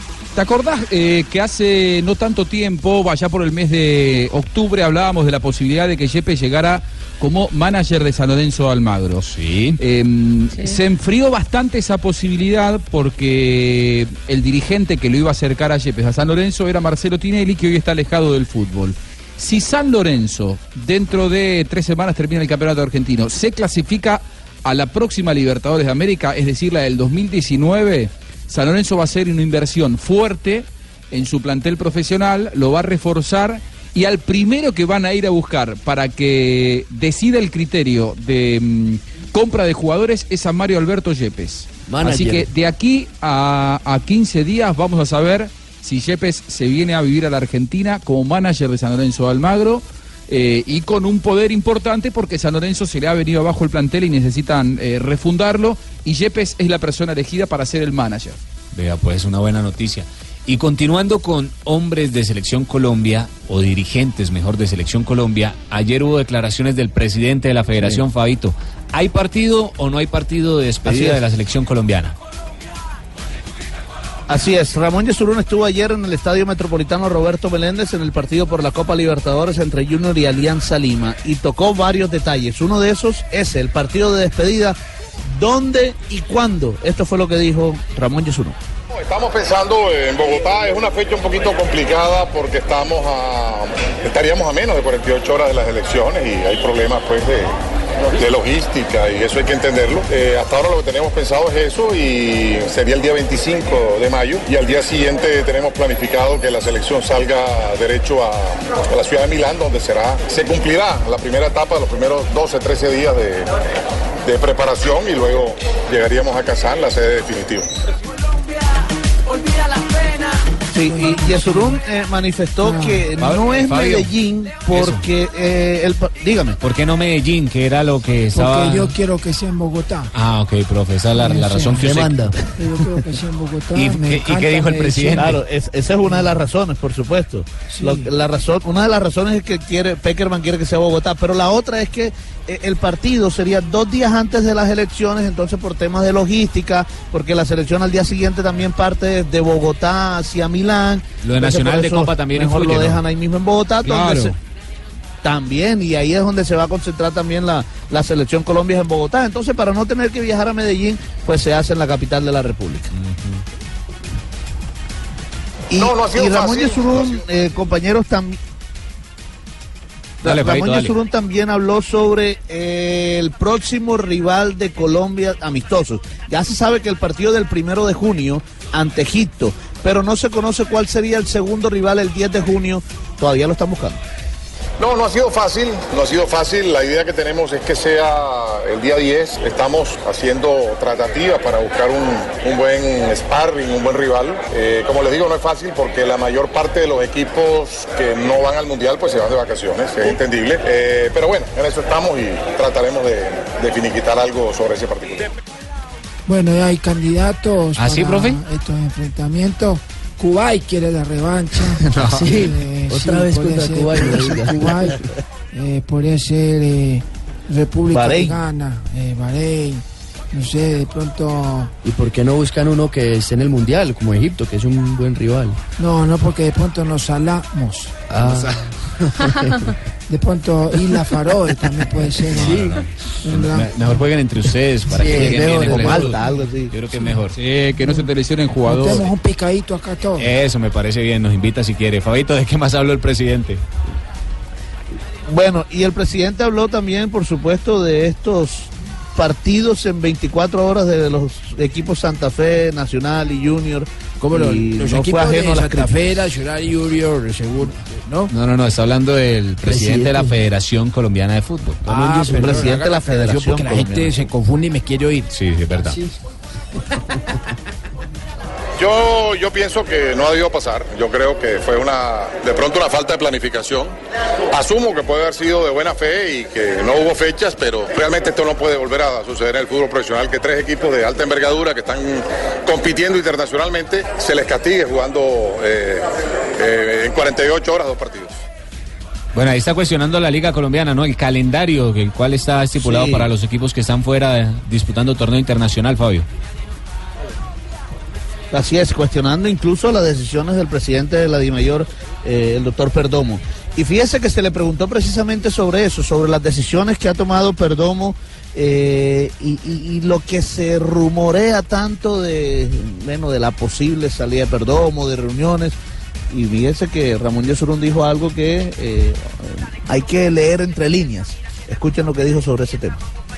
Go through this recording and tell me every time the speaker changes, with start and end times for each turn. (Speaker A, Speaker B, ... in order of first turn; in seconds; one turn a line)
Speaker A: 0.3-58.4
Speaker B: 9.2-9.8
Speaker C: 41.9-42.5
Speaker B: 58.7-72.1
Speaker D: 70.8-71.2
Speaker D: 74.3-84.8
Speaker D: 85.3-88.5
Speaker E: 89.0-97.5
Speaker E: 98.1-113.5
Speaker E: 114.2-117.7
Speaker D: 120.7-126.6
Speaker F: 120.8-121.8
Speaker F: 122.6-123.0
Speaker B: 123.2-124.1
Speaker B: 124.7-125.1
Speaker B: 126.6-128.9
Speaker F: 128.3-130.1
Speaker B: 130.1-132.2
Speaker F: 131.1-131.8
Speaker C: 131.7-132.3
Speaker F: 132.6-135.3
Speaker B: 133.7-135.4
Speaker D: 135.2-154.3
Speaker F: 137.7-138.1
Speaker B: 151.2-153.0
Speaker A: 153.8-154.3
Speaker D: 155.2-162.9
Speaker B: 162.9-163.4
Speaker D: 165.7-168.4
Speaker E: 165.8-167.2
Speaker D: 170.2-184.0
Speaker B: 170.2-170.9
Speaker E: 184.8-205.2
Speaker F: 206.3-215.0
Speaker B: 207.8-208.4
Speaker B: 212.0-212.4
Speaker C: 212.0-214.6
Speaker F: 215.5-221.7
Speaker D: 217.9-218.4
Speaker C: 221.8-225.6
Speaker F: 225.8-227.9
Speaker C: 228.1-229.6
Speaker B: 228.2-228.5
Speaker F: 230.1-232.7
Speaker C: 232.3-232.8
Speaker B: 232.3-237.4
Speaker F: 233.2-233.7
Speaker C: 234.9-236.1
Speaker D: 235.1-236.7
Speaker A: 237.3-239.1
Speaker F: 238.7-240.3
Speaker B: 240.2-243.6
Speaker D: 245.3-256.0
Speaker F: 254.2-258.3
Speaker B: 258.3-261.9
Speaker C: 259.6-260.3
Speaker C: 261.9-262.5
Speaker F: 261.9-265.2
Speaker D: 261.9-264.2
Speaker B: 265.3-266.0
Speaker C: 265.8-266.1
Speaker E: 268.8-273.9
Speaker E: 274.5-288.4
Speaker B: 289.3-296.2
Speaker D: 292.8-293.3
Speaker D: 298.5-315.8
Speaker D: 316.3-323.0